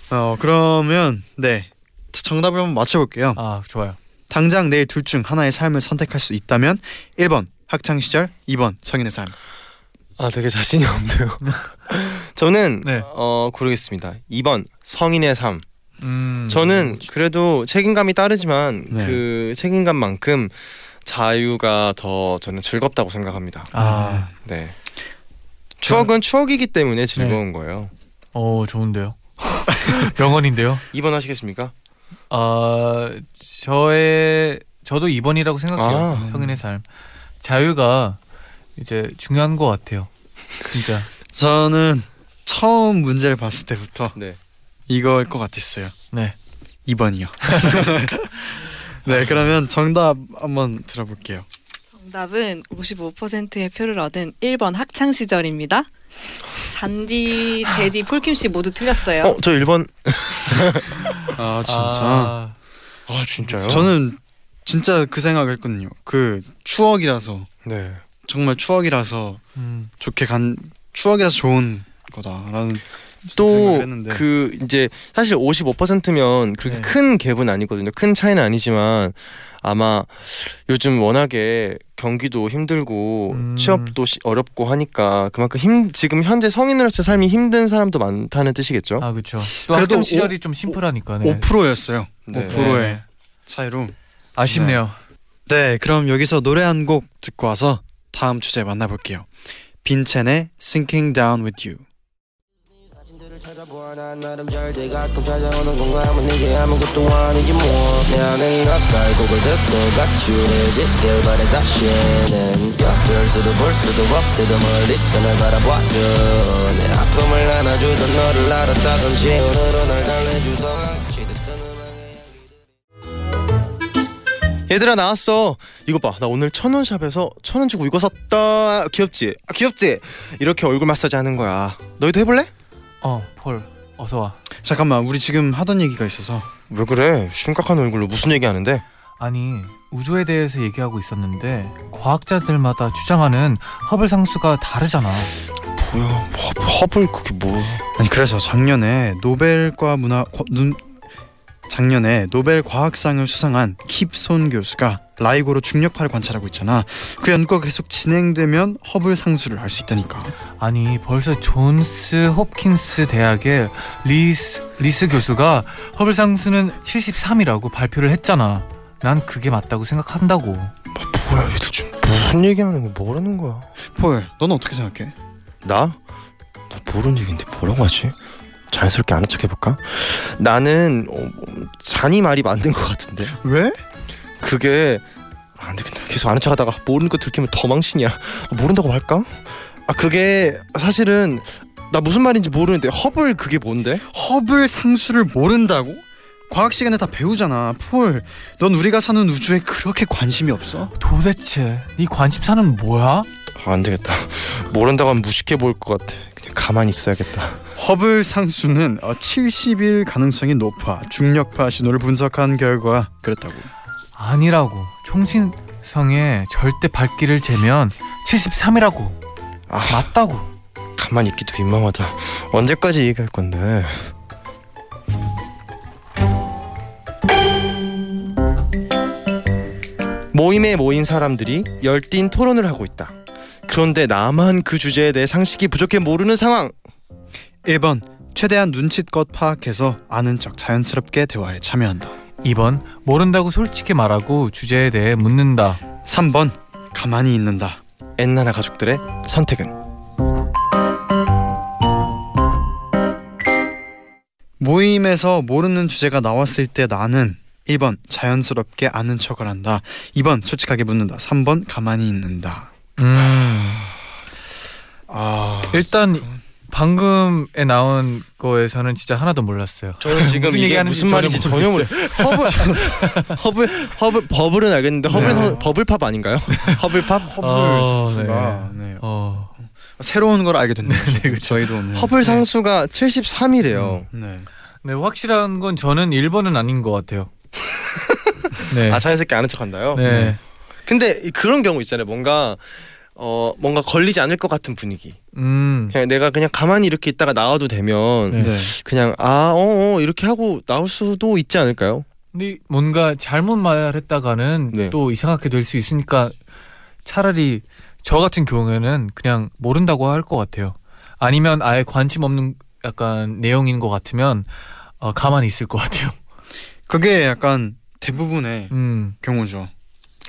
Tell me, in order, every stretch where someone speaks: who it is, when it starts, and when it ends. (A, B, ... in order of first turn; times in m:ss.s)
0:00.1-0:03.4 A
0:03.4-0:04.0 B
0:04.3-0:09.4 A
0:10.2-0:15.6 C
0:12.8-0:13.1 B
0:16.0-0:17.0 B
0:16.5-0:23.7 C
0:18.9-0:19.2 A
0:23.7-0:24.3 B
0:23.8-0:24.3 A
0:24.4-0:24.8 C
0:25.8-0:27.9 C
0:28.3-0:30.8 B
0:30.9-0:31.7 C
0:32.3-0:36.8 B
0:35.8-0:36.3 C
0:36.1-0:36.6 A
0:37.4-0:38.2 B
0:38.8-0:40.1 B
0:40.6-0:41.1 B
0:41.3-0:44.2 A
0:44.9-0:45.9 A
0:46.9-0:51.5 A
0:47.5-0:47.8 B
0:51.9-0:55.9 D
0:56.6-0:59.4 D
0:59.2-1:01.0 C
1:01.2-1:02.6 B
1:01.4-1:02.4 A
1:03.1-1:03.9 C
1:03.4-1:03.9 B
1:03.7-1:07.5 A
1:07.6-1:08.0 C
1:08.2-1:09.4 A
1:09.6-1:09.9 B
1:10.0-1:14.2 A
1:13.4-1:29.1 C
1:16.7-1:16.9 B
1:23.3-1:24.0 B
1:29.0-1:31.5 B
1:29.6-1:34.0 A
1:32.3-1:32.7 C
1:32.5-1:33.0 B
1:34.4-1:35.0 B
1:34.5-1:34.8 A
1:35.5-1:39.3 A
1:39.8-1:41.8 A
1:43.0-2:02.4 E
2:04.7-2:12.5 C
2:13.0-2:14.4 B
2:14.6-2:16.5 A
2:16.7-2:18.8 C
2:19.2-2:25.3 B
2:25.8-2:27.9 C
2:28.0-2:30.9 A
2:31.7-2:40.4 A
2:40.6-2:50.7 B
2:51.0-2:53.7 C
2:53.9-2:55.1 A
2:55.6-2:56.0 C
2:56.7-2:58.1 C
2:58.7-3:03.4 C
3:03.4-3:03.8 A
3:04.4-3:05.0 C
3:05.6-3:14.0 C
3:14.1-3:20.9 A
3:21.0-3:23.3 B
3:23.6-3:27.6 C
3:27.8-3:33.7 A
3:34.2-3:39.2 B
3:39.7-3:40.1 C
3:39.9-3:40.5 B
3:41.0-3:44.1 C
3:50.3-3:53.2 C
3:53.7-3:56.8 C
3:57.6-4:02.2 A
4:02.4-4:05.8 B
4:06.0-4:07.8 A
4:08.2-4:09.8 C
4:14.6-4:22.7 A
4:23.0-4:23.9 B
4:25.1-4:26.4 A
4:25.7-4:33.4 B
4:30.0-4:37.4 C
4:35.1-4:35.8 A
4:35.1-4:35.6 B
4:37.2-4:39.1 A
4:37.4-4:39.5 B
4:39.6-4:42.2 A
4:40.8-4:42.4 B
4:42.0-4:44.1 C
4:44.1-4:44.5 A
4:44.8-4:47.3 B
4:48.5-4:50.1 C
4:48.7-4:49.0 B
4:49.9-4:50.4 B
4:50.0-4:50.4 A
4:50.9-4:55.2 C
4:55.4-4:56.0 B
4:55.9-5:02.1 C
4:58.3-4:58.6 B
4:58.3-4:58.8 A
5:02.3-5:06.4 B
5:04.7-5:05.0 C
5:07.0-5:16.2 B
5:16.9-5:19.7 A
5:18.7-5:19.2 B